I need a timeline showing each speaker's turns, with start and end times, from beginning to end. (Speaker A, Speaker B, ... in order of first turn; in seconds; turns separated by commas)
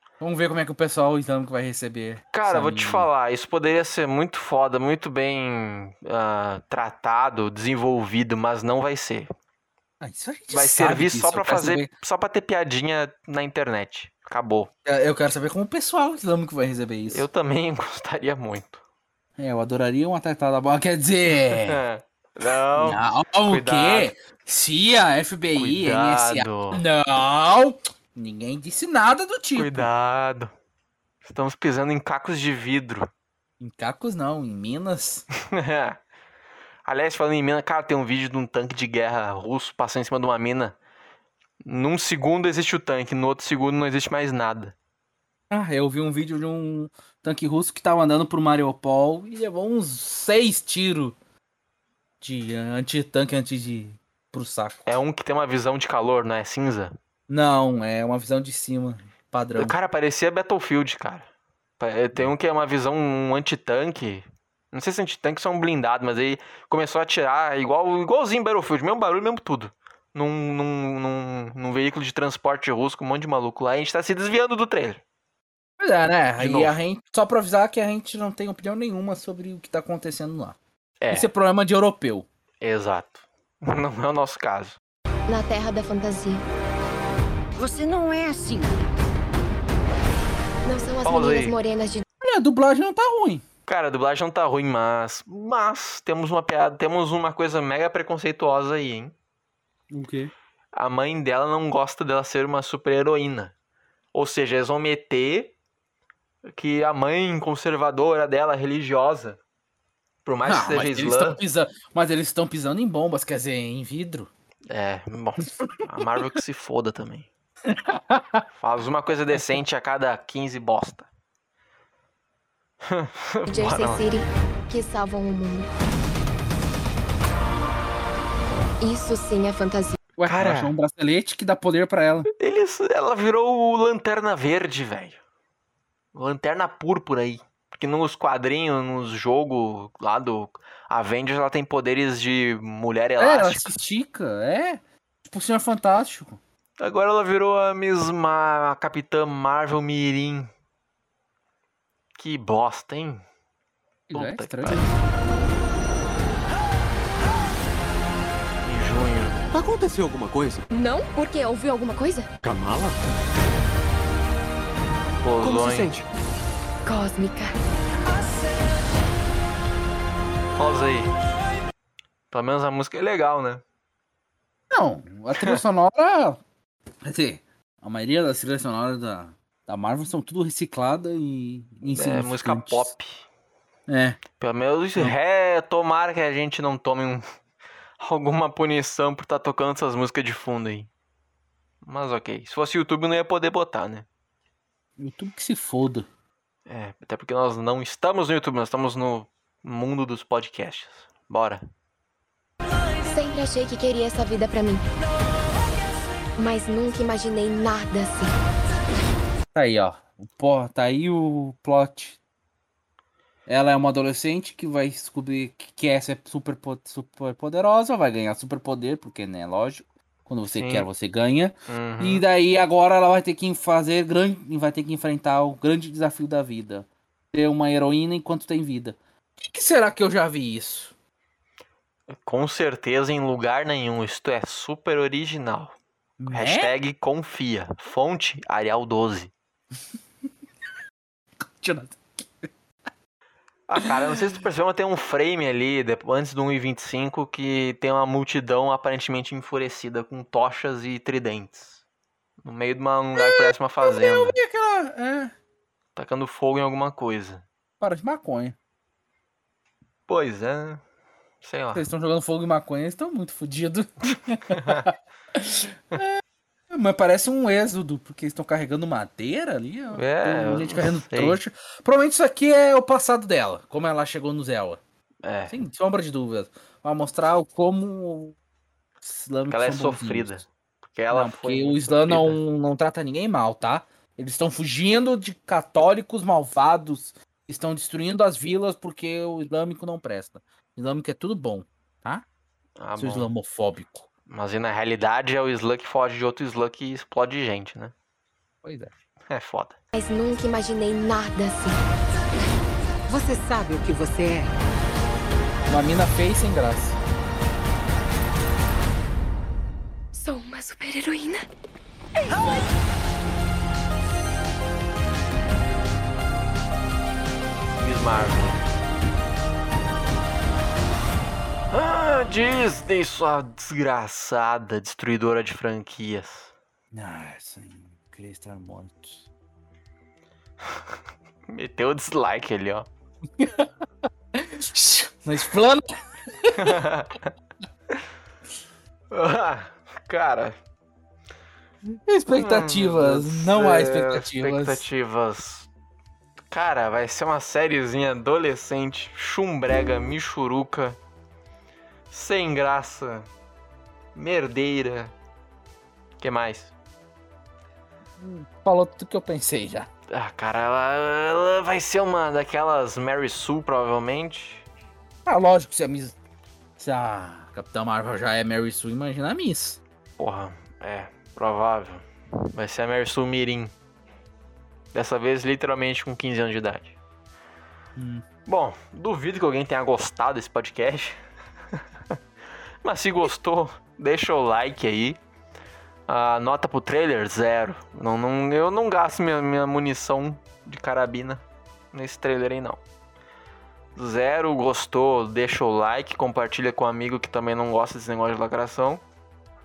Speaker A: 0.2-3.1, Speaker B: 2.3-9.3, Speaker A: 10.0-11.9, Speaker B: 10.5-14.7, Speaker A: 14.8-17.2, Speaker B: 17.1-18.8, Speaker A: 19.4-21.8, Speaker B: 21.3-24.1, Speaker A: 22.7-29.9, Speaker B: 25.5-26.8, Speaker B: 29.5-30.5, Speaker B: 31.2-33.1, Speaker A: 33.6-35.2, Speaker B: 35.5-36.0, Speaker B: 36.8-40.8, Speaker B: 41.6-44.7, Speaker A: 45.5-51.1, Speaker A: 52.2-54.8, Speaker B: 54.8-57.0, Speaker A: 57.3-59.7, Speaker B: 59.6-61.3, Speaker B: 61.8-75.0, Speaker A: 75.8-80.6, Speaker B: 76.4-76.8, Speaker B: 81.0-81.3, Speaker A: 81.1-82.3, Speaker B: 82.6-84.8, Speaker C: 85.3-86.4, Speaker D: 87.6-88.8, Speaker C: 90.6-92.0, Speaker B: 91.0-91.6, Speaker A: 92.2-93.4, Speaker B: 93.7-99.1, Speaker A: 99.9-100.3, Speaker B: 100.7-103.5, Speaker B: 104.1-105.5, Speaker B: 106.5-109.4, Speaker B: 110.2-111.4, Speaker A: 110.4-114.3, Speaker B: 114.7-117.3, Speaker A: 117.7-118.4, Speaker B: 118.5-121.1, Speaker B: 122.8-124.1, Speaker C: 123.5-125.7, Speaker C: 128.8-130.0, Speaker A: 130.2-132.3, Speaker B: 130.2-130.7, Speaker B: 132.4-135.2, Speaker B: 136.1-143.7, Speaker A: 143.2-146.4, Speaker B: 146.8-150.5, Speaker B: 152.2-153.2, Speaker A: 154.1-154.9, Speaker B: 154.1-155.0, Speaker B: 158.6-159.4, Speaker E: 159.5-160.6, Speaker C: 160.7-162.3, Speaker E: 162.4-162.9, Speaker B: 165.2-166.0, Speaker E: 165.4-165.9, Speaker C: 166.8-167.6, Speaker B: 170.6-171.1, Speaker B: 172.3-173.6, Speaker A: 174.7-176.4, Speaker A: 177.0-182.9, Speaker B: 181.8-183.2, Speaker A: 183.9-184.2, Speaker B: 184.4-187.2, Speaker B: 188.0-190.9, Speaker B: 191.8-194.1, Speaker A: 195.0-196.1, Speaker B: 196.7-201.6, Speaker C: 203.1-204.8, Speaker C: 206.4-208.3, Speaker A: 209.5-212.2, Speaker A: 213.4-230.9, Speaker B: 220.5-220.9, Speaker B: 221.7-222.2, Speaker B: 232.1-235.7, Speaker A: 236.2-236.7, Speaker B: 236.3-239.3, Speaker A: 241.5-242.5, Speaker B: 243.7-251.8, Speaker A: 243.8-244.1, Speaker B: 252.4-254.4, Speaker A: 253.2-255.3, Speaker B: 255.9-257.4, Speaker A: 257.8-258.6, Speaker B: 260.1-260.8, Speaker B: 261.4-261.9, Speaker A: 261.7-266.2, Speaker A: 266.7-274.8, Speaker B: 269.9-271.4, Speaker B: 275.2-275.6, Speaker A: 275.5-278.4, Speaker A: 279.0-280.4, Speaker B: 279.5-282.4, Speaker A: 281.1-292.2, Speaker B: 292.8-293.3, Speaker A: 293.0-294.1, Speaker B: 294.3-297.9, Speaker A: 298.6-298.9, Speaker B: 299.3-299.8, Speaker C: 299.9-301.8, Speaker D: 303.1-304.6, Speaker A: 305.7-307.0, Speaker C: 310.1-311.5, Speaker B: 317.8-318.6, Speaker B: 321.7-326.5, Speaker A: 326.9-329.2, Speaker B: 331.5-332.9, Speaker A: 333.4-333.6, Speaker A: 334.4-335.8, Speaker A: 336.4-336.8, Speaker B: 336.6-337.1, Speaker B: 339.1-340.6, Speaker A: 342.1-344.8, Speaker B: 342.3-345.7, Speaker B: 346.5-351.0, Speaker B: 352.1-353.3, Speaker B: 354.1-355.1, Speaker B: 356.2-356.7, Speaker A: 358.2-359.9, Speaker B: 360.1-364.6, Speaker A: 365.2-366.1, Speaker A: 366.8-369.8, Speaker B: 370.2-373.7, Speaker B: 374.9-376.9, Speaker A: 377.9-378.2, Speaker B: 378.4-381.2, Speaker B: 382.8-385.2, Speaker B: 386.1-392.8, Speaker B: 393.9-399.0